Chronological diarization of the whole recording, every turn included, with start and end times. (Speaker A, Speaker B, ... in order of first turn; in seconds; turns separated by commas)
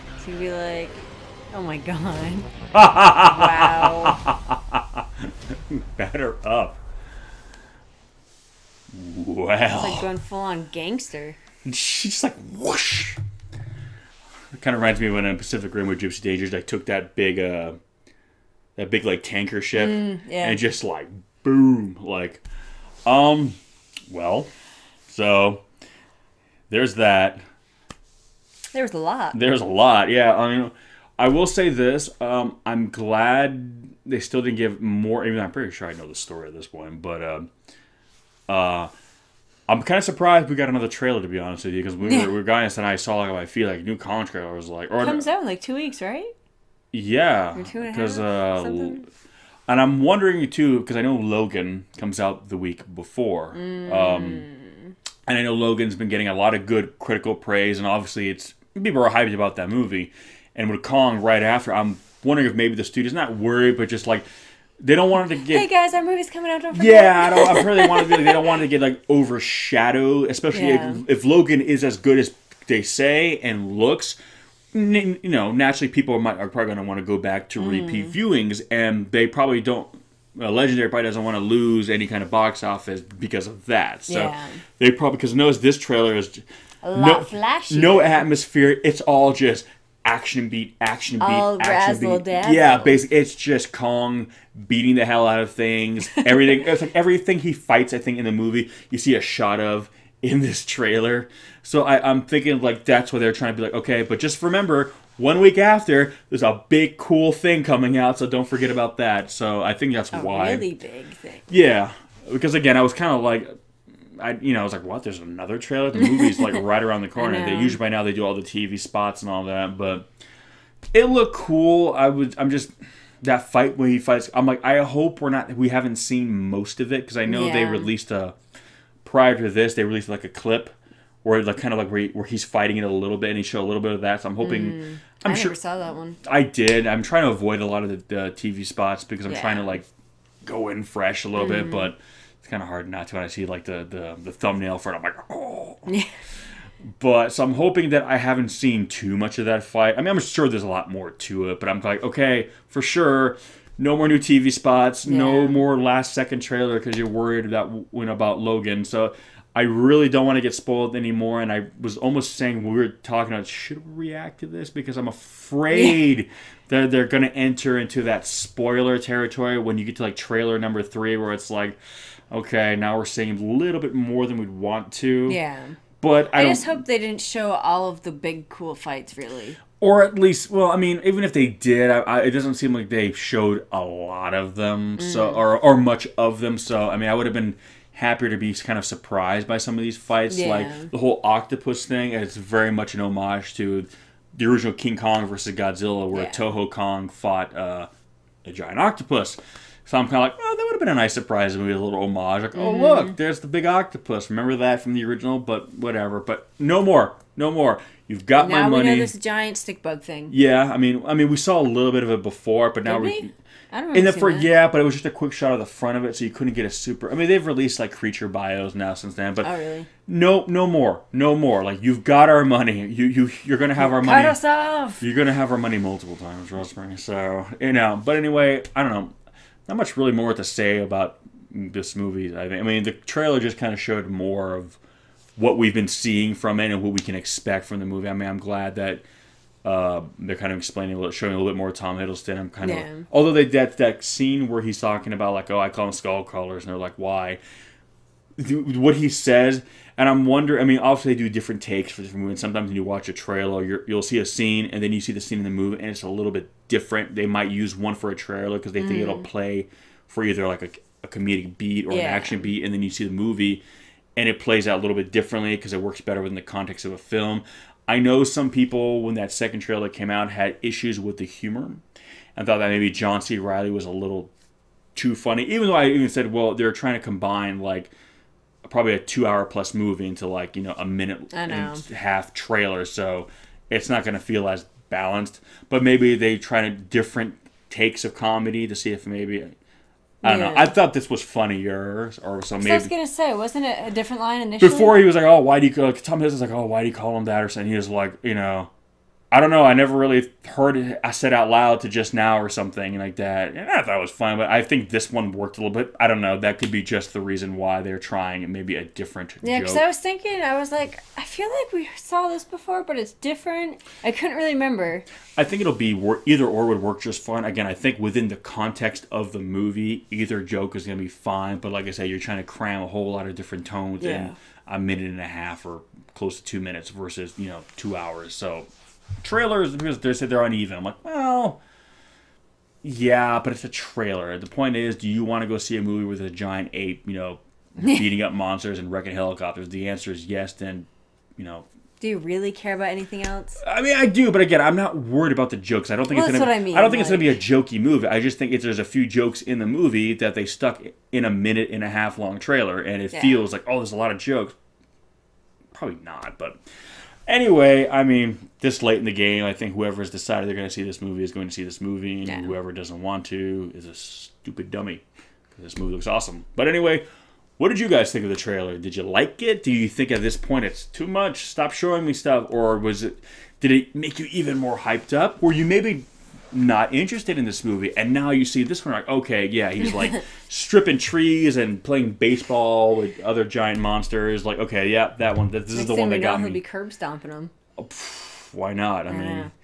Speaker A: 0.2-2.5, Speaker B: 2.7-6.8, Speaker A: 3.1-4.2, Speaker B: 8.9-10.1, Speaker A: 9.7-11.4, Speaker B: 11.7-13.2, Speaker B: 14.5-17.8, Speaker B: 18.8-22.4, Speaker A: 19.7-20.6, Speaker B: 23.1-23.6, Speaker B: 24.1-24.5, Speaker B: 25.1-25.6, Speaker B: 26.7-27.4, Speaker A: 28.7-29.4, Speaker B: 29.3-37.5, Speaker B: 38.5-38.9, Speaker B: 39.7-45.3, Speaker A: 42.0-42.3, Speaker A: 45.0-46.3, Speaker B: 46.9-49.0, Speaker A: 47.5-49.1, Speaker B: 49.7-54.5, Speaker A: 53.5-54.9, Speaker B: 55.3-64.3, Speaker B: 64.8-65.7, Speaker A: 65.4-68.5, Speaker B: 66.7-74.2, Speaker A: 70.5-71.0, Speaker B: 74.7-110.7, Speaker A: 77.6-78.2, Speaker A: 84.1-84.6, Speaker A: 86.8-88.2, Speaker A: 91.2-93.0, Speaker A: 110.1-111.5, Speaker B: 111.5-113.5, Speaker B: 114.2-120.1, Speaker A: 116.1-116.6, Speaker A: 117.2-117.8, Speaker B: 120.9-128.3, Speaker A: 127.2-127.9, Speaker B: 129.0-135.6, Speaker A: 134.4-136.2, Speaker B: 136.2-139.9, Speaker A: 139.3-139.7, Speaker B: 140.4-145.9, Speaker A: 141.3-141.9, Speaker B: 147.0-171.8, Speaker A: 155.0-155.6, Speaker A: 165.7-166.0, Speaker B: 172.3-175.4, Speaker A: 175.2-179.6, Speaker B: 176.0-176.8, Speaker B: 179.8-197.9, Speaker A: 185.0-185.4, Speaker A: 190.3-190.9, Speaker A: 196.1-196.4, Speaker B: 198.4-209.1, Speaker A: 202.5-203.2, Speaker A: 208.4-210.3, Speaker B: 210.3-213.3, Speaker A: 212.8-214.5, Speaker B: 213.9-219.5, Speaker A: 219.4-219.9, Speaker B: 220.1-224.4, Speaker A: 223.8-225.0, Speaker B: 225.0-229.1, Speaker B: 229.7-234.8, Speaker B: 235.4-239.0, Speaker B: 239.6-247.4, Speaker A: 242.6-243.1, Speaker B: 248.4-263.6, Speaker A: 258.8-259.3, Speaker A: 261.9-262.4, Speaker B: 264.2-271.8, Speaker B: 272.4-274.3, Speaker B: 274.9-277.9, Speaker B: 278.6-289.6, Speaker A: 281.3-281.9, Speaker B: 290.2-292.9, Speaker A: 290.2-290.8, Speaker A: 292.6-295.0, Speaker B: 294.6-298.7, Speaker B: 299.3-309.8, Speaker A: 309.4-315.1, Speaker B: 315.4-328.7, Speaker A: 324.0-324.4, Speaker B: 329.2-331.6, Speaker B: 332.8-341.7, Speaker A: 342.0-343.6, Speaker B: 343.6-354.6, Speaker A: 346.1-347.4, Speaker A: 353.1-353.4, Speaker B: 355.7-356.6, Speaker B: 357.3-367.1, Speaker A: 362.2-362.6, Speaker B: 367.6-386.6, Speaker A: 385.7-387.5, Speaker B: 387.8-389.5, Speaker A: 389.1-389.5